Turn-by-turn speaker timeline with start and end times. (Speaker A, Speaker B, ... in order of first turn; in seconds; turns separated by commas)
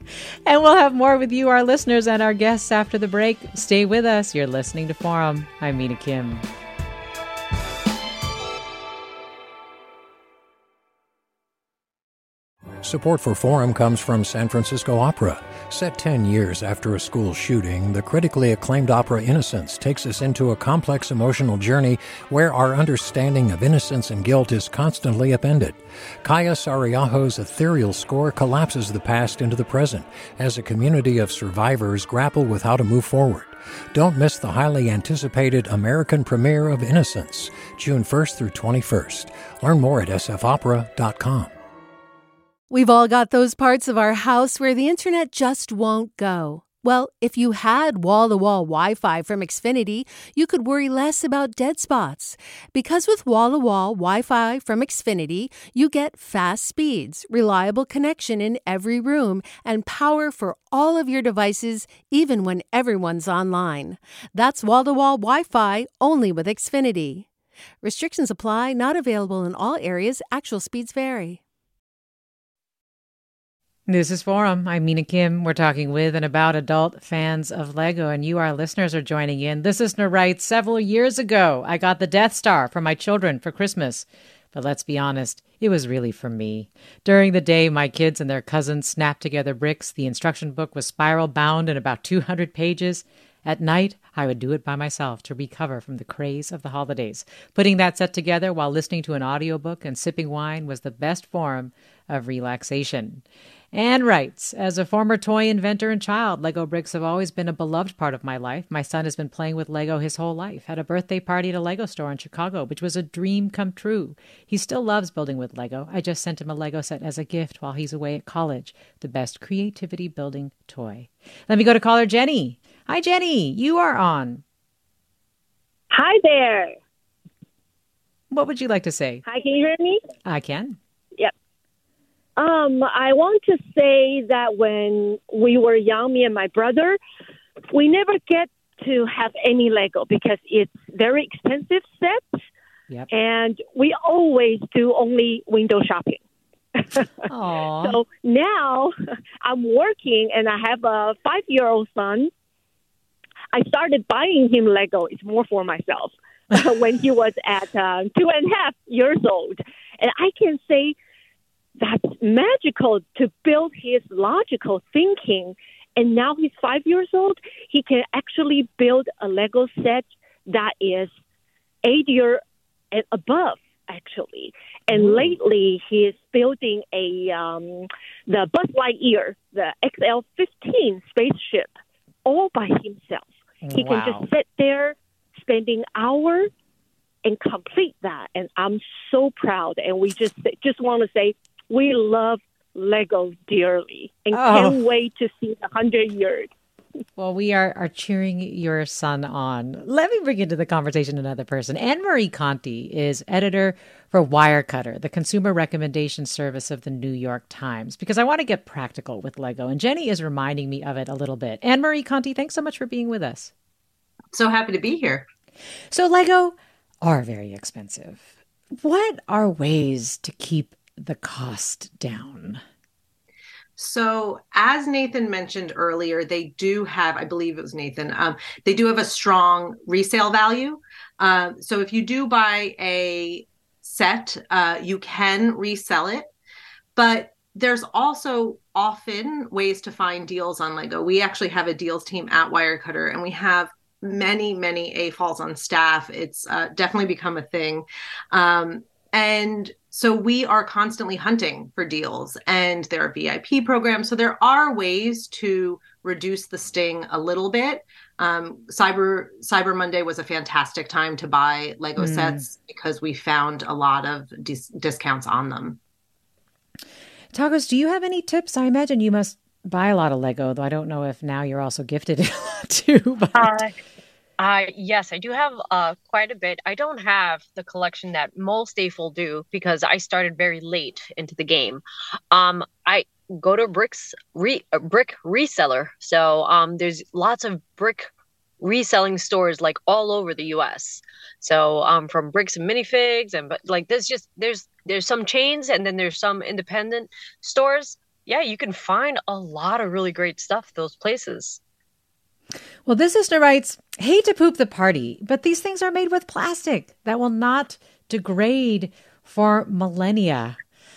Speaker A: 0.5-6.5, Speaker B: 12.8-41.5, Speaker C: 42.7-67.3, Speaker C: 67.8-71.4, Speaker A: 73.9-124.4, Speaker D: 125.9-126.8, Speaker A: 128.3-129.2, Speaker D: 129.2-130.0, Speaker A: 130.2-130.8, Speaker D: 132.4-137.0, Speaker D: 137.7-142.4, Speaker D: 143.1-146.2, Speaker A: 147.3-148.0, Speaker D: 147.8-152.3, Speaker D: 153.5-160.9, Speaker D: 161.8-171.1, Speaker D: 171.8-172.4, Speaker D: 172.9-181.7, Speaker A: 174.9-175.3, Speaker D: 182.3-186.5, Speaker A: 183.6-184.3, Speaker D: 187.2-196.5, Speaker A: 194.3-194.8, Speaker A: 197.2-213.5, Speaker E: 214.3-215.3, Speaker A: 215.9-218.3, Speaker A: 218.8-222.6, Speaker E: 223.8-236.3, Speaker E: 236.9-265.8, Speaker A: 262.0-262.4, Speaker A: 267.3-273.6, Speaker F: 273.4-273.7, Speaker F: 274.4-301.6, Speaker A: 302.9-310.6